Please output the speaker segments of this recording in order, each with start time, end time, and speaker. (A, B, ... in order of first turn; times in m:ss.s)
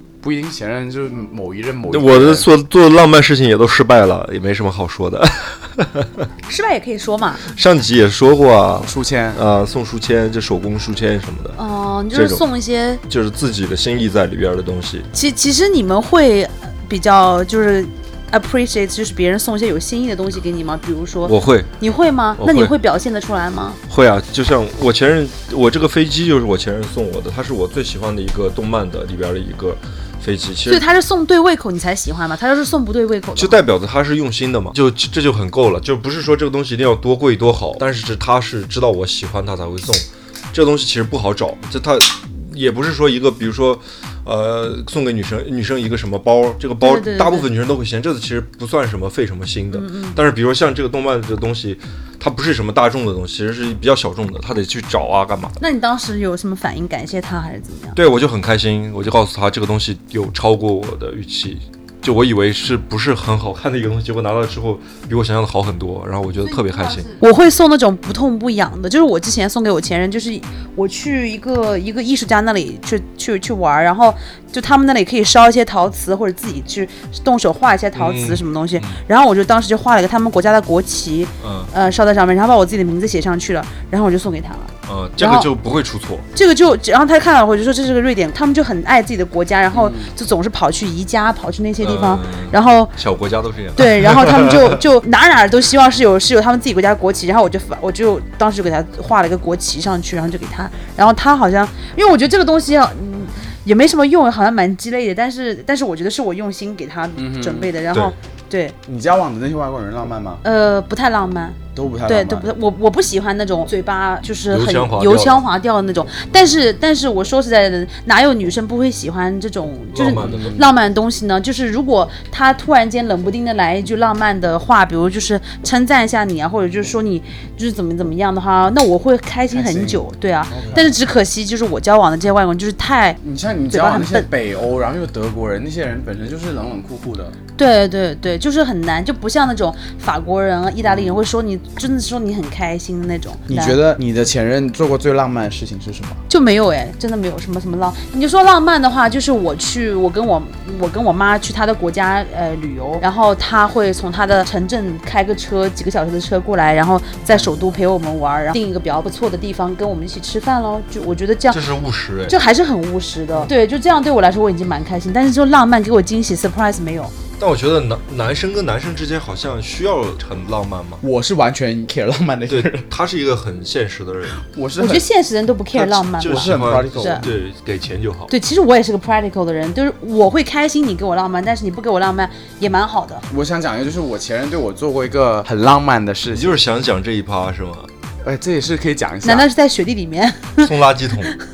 0:00.2-0:02.5 A
0:01.9-0:06.3 B
0:06.5-0:07.4 C
0:07.5-0:11.6 B
0:08.8-0:09.4 A
0:11.6-0:13.0 C
0:12.1-0:12.4 B
0:13.1-0:15.1 B
0:15.1-0:23.8 C
0:21.2-0:21.7 B
0:22.4-0:22.7 B
0:23.9-0:30.8 B
0:30.7-0:33.6 C
0:33.4-0:55.6 B
0:46.8-0:47.5 C
0:49.7-0:50.2 C
0:55.6-0:58.0 C
0:58.0-1:07.2 B
1:06.5-1:25.5 C
1:18.0-1:19.0 B
1:21.4-1:21.7 B
1:24.9-1:26.3 B
1:26.3-1:32.9 C
1:29.7-1:30.1 A
1:31.8-1:34.8 B
1:33.8-1:48.8 C
1:47.2-1:47.7 A
1:48.9-1:50.4 A
1:50.4-2:13.2 C
1:51.8-1:52.5 A
1:54.5-1:55.4 B
1:59.9-2:00.6 B
2:00.2-2:00.7 A
2:09.5-2:11.0 A
2:13.2-2:17.4 A
2:13.7-2:14.3 C
2:17.6-2:23.8 C
2:20.8-2:21.2 A
2:23.5-2:26.2 A
2:26.3-2:41.6 C
2:41.5-2:42.4 B
2:42.3-2:47.1 C
2:47.4-2:51.0 B
2:51.0-2:52.9 A
2:52.5-2:54.4 B
2:54.4-2:55.1 A
2:54.8-2:57.3 C
2:55.7-2:58.3 B
2:56.2-2:57.3 A
2:58.3-3:03.2 C
3:03.3-3:06.6 A
3:06.3-3:07.9 B
3:08.2-3:09.5 A
3:09.2-3:10.7 C
3:10.6-3:11.3 B